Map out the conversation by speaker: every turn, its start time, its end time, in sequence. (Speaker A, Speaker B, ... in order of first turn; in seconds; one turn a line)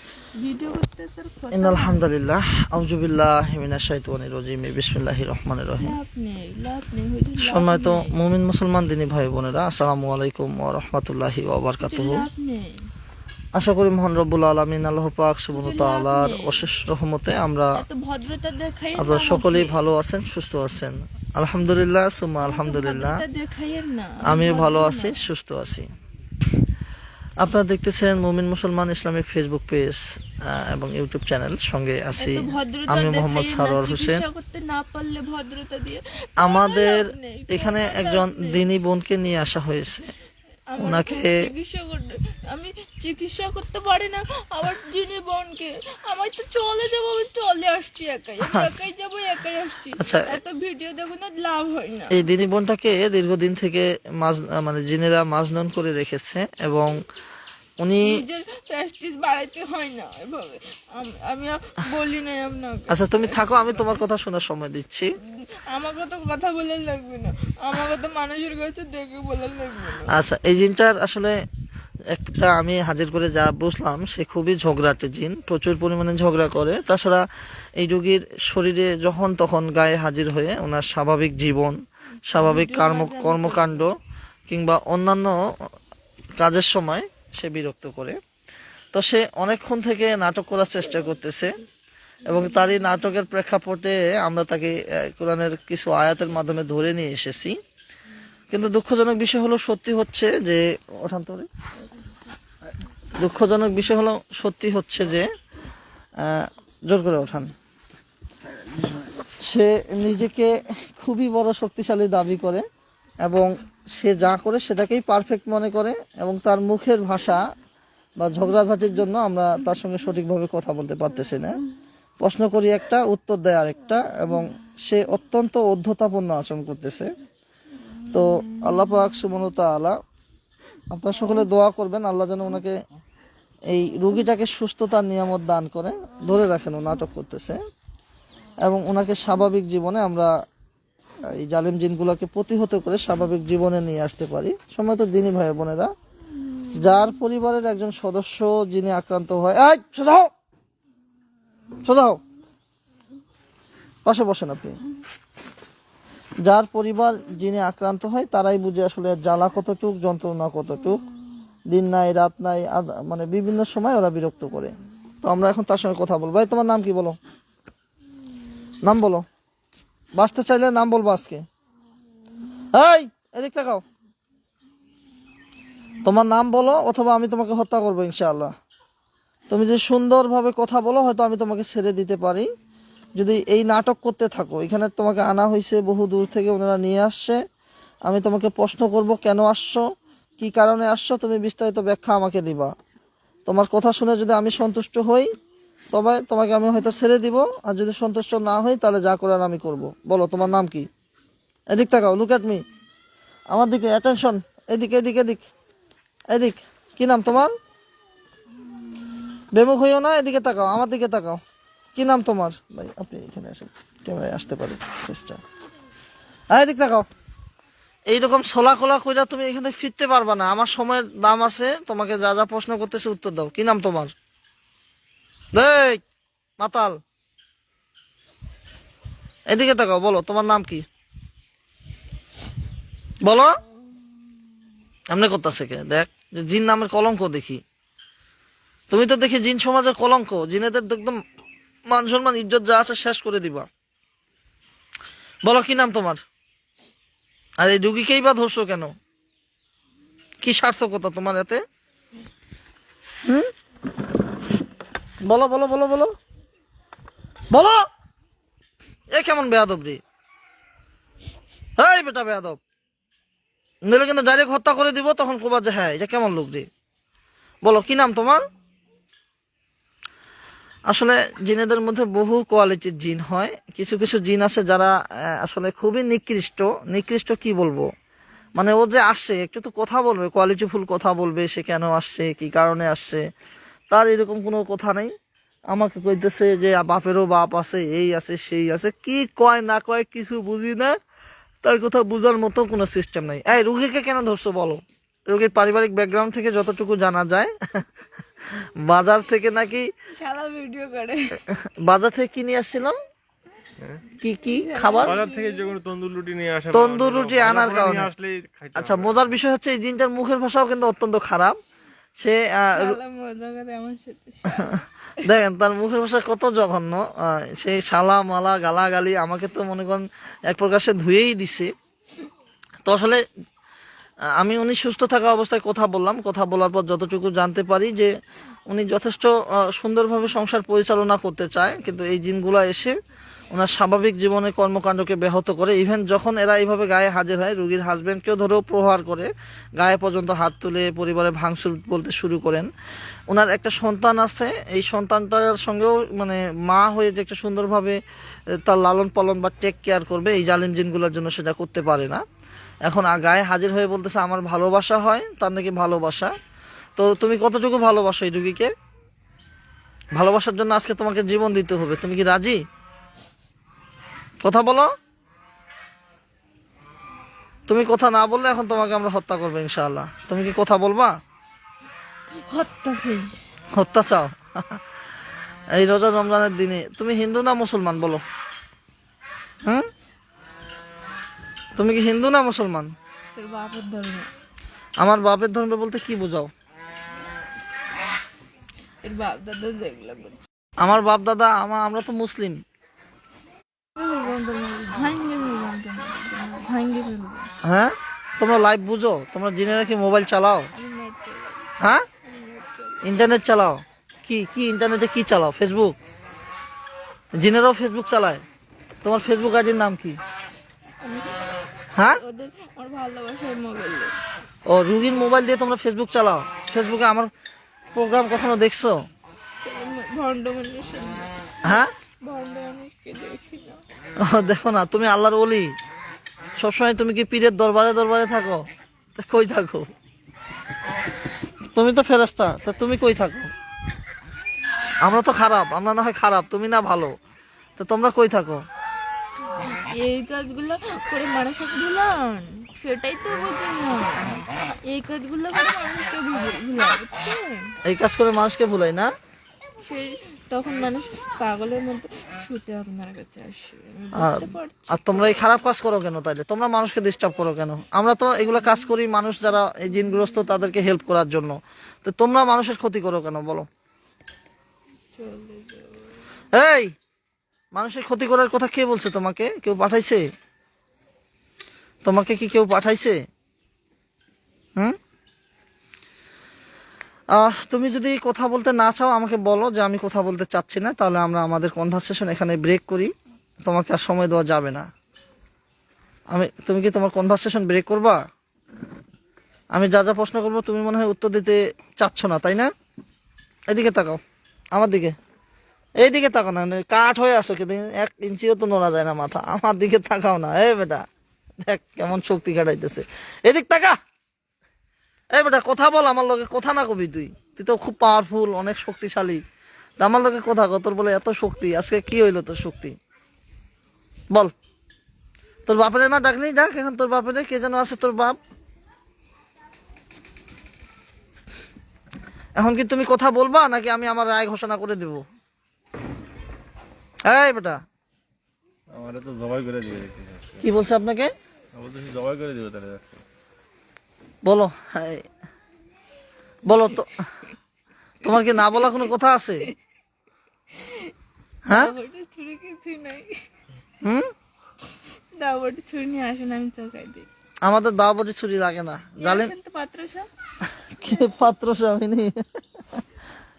Speaker A: 0.4-2.0
Speaker B: 1.5-6.0
Speaker A: 5.8-8.2
Speaker B: 7.4-12.2
Speaker A: 11.8-12.9
Speaker B: 13.5-17.7
Speaker A: 15.5-16.6
Speaker A: 17.8-19.8
Speaker B: 19.0-23.2
Speaker A: 22.4-25.2
Speaker B: 24.2-25.9
Speaker B: 27.4-34.2
Speaker A: 32.2-38.6
Speaker B: 36.4-40.1
Speaker A: 40.7-52.3
Speaker B: 40.8-41.4
Speaker B: 50.0-50.3
Speaker B: 52.1-57.0
Speaker B: 57.8-58.2
Speaker A: 58.0-64.0
Speaker B: 62.9-65.1
Speaker A: 65.7-70.1
Speaker B: 70.1-71.3
Speaker B: 72.1-77.2
Speaker B: 77.8-81.8
Speaker B: 82.3-83.9
Speaker A: 82.3-83.9
Speaker B: 84.5-85.4
Speaker B: 86.4-88.2
Speaker B: 88.9-91.6
Speaker B: 92.2-97.6
Speaker B: 98.5-101.5
Speaker B: 103.1-105.3
Speaker B: 106.2-107.5
Speaker B: 109.3-112.6
Speaker B: 113.2-117.4
Speaker B: 118.2-121.6
Speaker B: 122.2-127.1
Speaker B: 128.1-130.0
Speaker B: 130.9-132.8
Speaker B: 133.7-137.6
Speaker B: 138.6-140.3
Speaker B: 141.3-145.9
Speaker B: 146.7-150.3
Speaker B: 151.8-152.2
Speaker B: 154.0-154.8
Speaker B: 156.4-161.0
Speaker B: 161.7-167.2
Speaker B: 168.8-169.2
Speaker B: 170.2-171.4
Speaker B: 172.7-173.8
Speaker B: 176.0-178.5
Speaker B: 179.5-182.5
Speaker B: 183.2-187.4
Speaker B: 188.1-189.8
Speaker B: 190.4-192.7
Speaker B: 193.4-195.3
Speaker B: 195.9-200.9
Speaker B: 201.7-202.6
Speaker B: 203.5-205.4
Speaker B: 206.3-207.5
Speaker B: 209.5-211.4
Speaker B: 211.9-215.4
Speaker B: 216.5-217.1
Speaker B: 218.1-224.1
Speaker B: 225.5-226.0
Speaker B: 226.6-226.9
Speaker B: 229.5-230.8
Speaker B: 233.2-233.6
Speaker B: 235.1-237.6
Speaker B: 238.9-241.2
Speaker B: 241.9-243.7
Speaker B: 245.4-246.2
Speaker B: 247.6-248.9
Speaker B: 250.4-251.6
Speaker B: 255.2-256.1
Speaker B: 257.5-257.8
Speaker B: 259.1-260.0
Speaker B: 261.8-262.6
Speaker B: 263.9-266.7
Speaker B: 267.6-268.4
Speaker B: 270.9-277.9
Speaker B: 278.6-283.2
Speaker B: 283.9-285.1
Speaker B: 285.7-290.9
Speaker B: 291.6-297.8
Speaker B: 298.5-299.9
Speaker A: 300.2-301.4
Speaker B: 301.5-303.0
Speaker B: 304.2-305.2
Speaker A: 304.4-305.7
Speaker C: 305.0-309.3
Speaker B: 306.7-308.1
Speaker B: 308.7-311.6
Speaker B: 312.2-313.0
Speaker A: 312.7-314.8
Speaker B: 315.2-321.7
Speaker B: 322.9-323.2
Speaker B: 324.4-328.1
Speaker B: 328.7-332.9
Speaker B: 333.5-342.7
Speaker B: 343.3-348.0
Speaker B: 348.6-352.2
Speaker B: 352.8-356.3
Speaker B: 357.0-358.7
Speaker B: 360.2-362.6
Speaker B: 364.4-364.9
Speaker B: 367.7-371.1
Speaker A: 372.4-373.3
Speaker B: 373.7-374.8
Speaker B: 375.7-378.2
Speaker B: 381.8-382.9
Speaker A: 383.3-384.3
Speaker B: 385.0-386.5
Speaker A: 389.0-390.4
Speaker B: 390.8-392.6
Speaker A: 393.9-397.6
Speaker B: 397.6-400.7
Speaker A: 400.7-401.6
Speaker B: 401.8-402.0
Speaker A: 402.2-403.1
Speaker B: 403.0-406.0
Speaker B: 407.4-408.4
Speaker B: 409.0-410.2
Speaker A: 411.0-411.4
Speaker B: 411.9-412.2
Speaker A: 412.0-414.1
Speaker B: 414.7-417.3
Speaker B: 417.9-418.9
Speaker A: 419.6-423.8
Speaker B: 421.6-421.9
Speaker B: 424.2-425.7
Speaker B: 426.6-428.6
Speaker B: 429.1-429.9
Speaker B: 431.7-433.5
Speaker B: 435.0-437.1
Speaker B: 437.8-438.6
Speaker A: 439.6-447.7
Speaker B: 447.8-449.1
Speaker A: 449.8-455.3
Speaker B: 454.1-463.7
Speaker A: 465.1-466.0
Speaker B: 466.5-466.9
Speaker B: 467.7-470.2
Speaker B: 472.0-473.2
Speaker B: 477.4-483.1
Speaker B: 483.6-484.9
Speaker B: 486.3-488.2
Speaker B: 489.7-492.7
Speaker B: 493.7-494.2
Speaker B: 494.7-495.1
Speaker B: 496.0-501.0
Speaker B: 501.6-504.0
Speaker B: 505.3-509.4
Speaker B: 510.0-513.0
Speaker B: 515.7-518.4
Speaker B: 522.5-525.2
Speaker B: 527.3-527.8
Speaker C: 528.9-530.6
Speaker B: 530.6-531.3
Speaker C: 531.7-533.2
Speaker B: 534.4-535.2
Speaker B: 536.6-537.2
Speaker B: 538.2-539.7
Speaker A: 538.3-539.0
Speaker A: 540.7-541.1
Speaker B: 541.7-541.9
Speaker A: 541.7-543.3
Speaker A: 545.4-547.3
Speaker B: 547.6-549.5
Speaker A: 549.2-550.3
Speaker B: 550.8-553.0